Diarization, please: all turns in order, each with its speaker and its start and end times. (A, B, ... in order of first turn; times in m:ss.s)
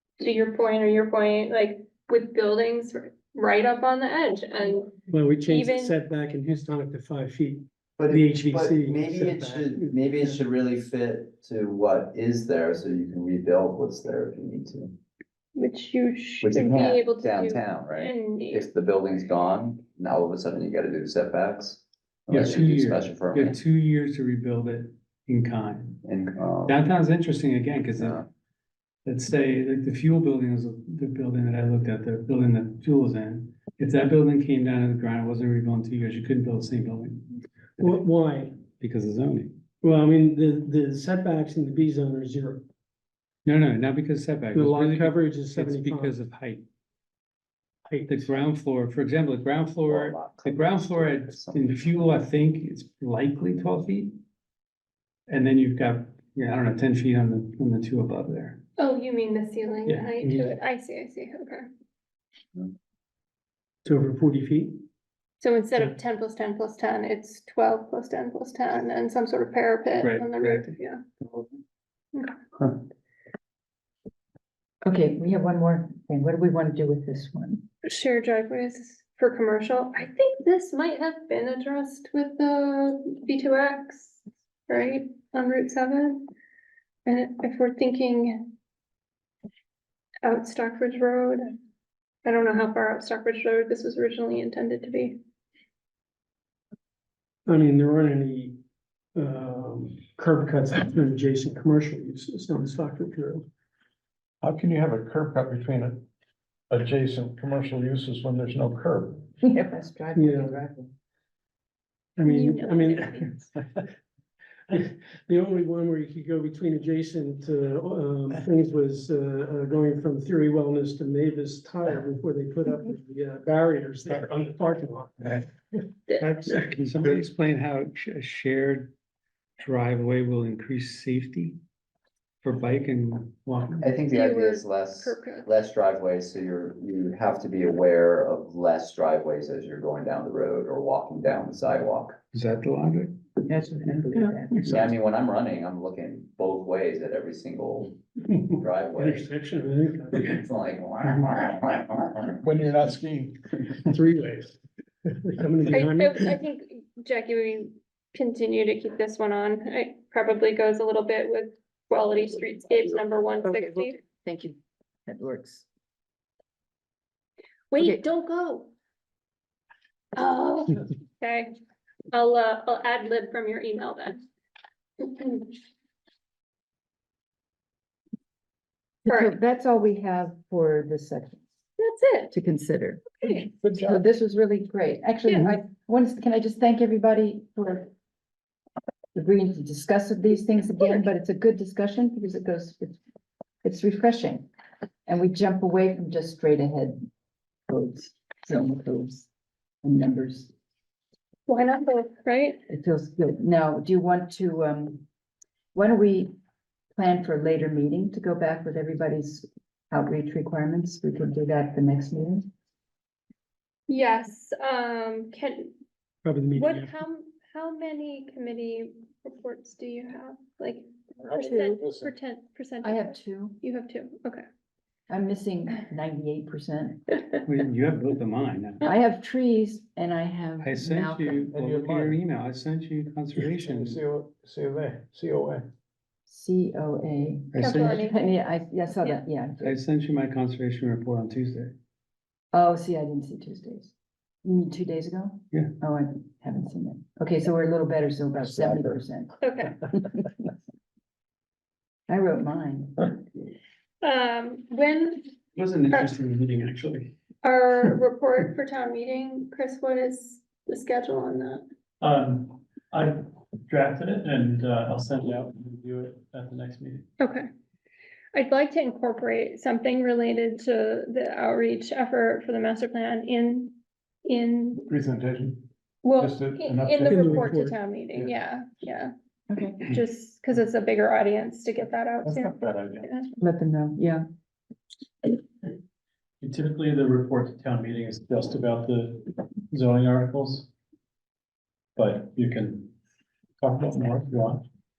0:00.2-0:06.0 A
0:05.1-0:10.4 B
0:08.0-0:15.0 C
0:15.6-0:18.7 A
0:16.4-0:23.6 C
0:22.3-0:26.0 D
0:26.0-0:26.8 C
0:26.7-0:28.2 D
0:28.0-0:28.2 C
0:29.0-0:37.4 D
0:37.8-0:38.6 B
0:38.8-0:39.6 D
0:39.8-0:42.6 B
0:43.4-0:46.7 D
0:44.5-0:46.2 B
0:47.9-0:48.3 B
0:48.1-0:54.2 D
0:49.9-0:52.0 C
0:55.3-0:58.6 D
0:58.8-1:01.7 A
0:59.9-1:00.3 D
1:03.8-1:04.8 B
1:05.4-1:11.0 A
1:10.0-1:10.8 D
1:14.8-1:17.6 E
1:17.8-1:26.3 A
1:27.0-1:28.5 A
1:30.2-1:31.5 A
1:32.2-1:35.2 A
1:37.5-1:38.6 B
1:39.2-1:43.5 B
1:44.4-1:46.0 F
1:46.7-1:49.3 F
1:49.4-1:50.9 E
1:50.2-1:50.6 B
1:52.2-1:53.3 B
1:52.3-1:53.5 A
1:54.7-2:06.9 B
2:06.1-2:06.5 A
2:06.7-2:08.9 D
2:09.6-2:11.6 D
2:12.4-2:13.8 D
2:13.8-2:22.2 C
2:14.1-2:15.5 A
2:22.3-2:23.2 D
2:23.5-2:24.8 E
2:24.6-2:29.3 C
2:29.0-2:30.4 B
2:30.1-2:32.4 C
2:32.4-2:34.0 F
2:33.9-2:36.4 B
2:35.7-2:44.0 A
2:43.4-2:45.7 E
2:47.7-2:48.7 A
2:47.8-2:48.0 E
2:50.1-2:51.5 A
2:52.1-2:54.2 A
2:55.0-2:55.5 A
2:59.0-3:01.4 E
2:59.1-2:59.4 A
3:01.8-3:02.3 A
3:02.3-3:03.1 E
3:03.2-3:03.5 A
3:03.6-3:04.0 F
3:03.8-3:07.9 E
3:05.3-3:05.6 A
3:09.1-3:13.0 E
3:13.6-3:14.5 E
3:15.1-3:17.0 E
3:17.7-3:19.3 E
3:19.8-3:20.5 E
3:21.5-3:22.6 A
3:22.7-3:25.0 E
3:25.7-3:26.3 E
3:27.0-3:32.5 E
3:33.9-3:35.7 A
3:36.2-3:36.9 B
3:36.6-3:44.4 A
3:41.3-3:41.8 E
3:41.3-3:42.1 F
3:42.8-3:43.6 E
3:45.1-3:47.0 E
3:47.4-3:48.8 D
3:48.8-3:51.6 E
3:50.6-3:54.0 D
3:51.5-3:52.2 F
3:53.4-3:55.7 F
3:56.3-3:59.8 E
3:57.5-3:58.0 D
3:57.6-3:58.2 A
3:59.6-4:01.8 D
4:02.5-4:03.9 E
4:04.4-4:10.3 E
4:09.4-4:09.8 A
4:12.1-4:13.0 E
4:14.0-4:15.3 A
4:15.6-4:17.1 D
4:17.4-4:21.6 A
4:22.0-4:27.1 G
4:27.2-4:27.5 A
4:28.3-4:33.7 A
4:34.2-4:34.8 A
4:34.8-4:37.4 F
4:36.0-4:39.1 A
4:37.0-4:37.8 B
4:39.5-4:39.9 E
4:39.8-4:43.4 A
4:42.2-4:43.1 F
4:43.4-4:44.2 E
4:46.4-4:50.7 G
4:52.0-4:52.9 G
4:53.6-4:54.6 G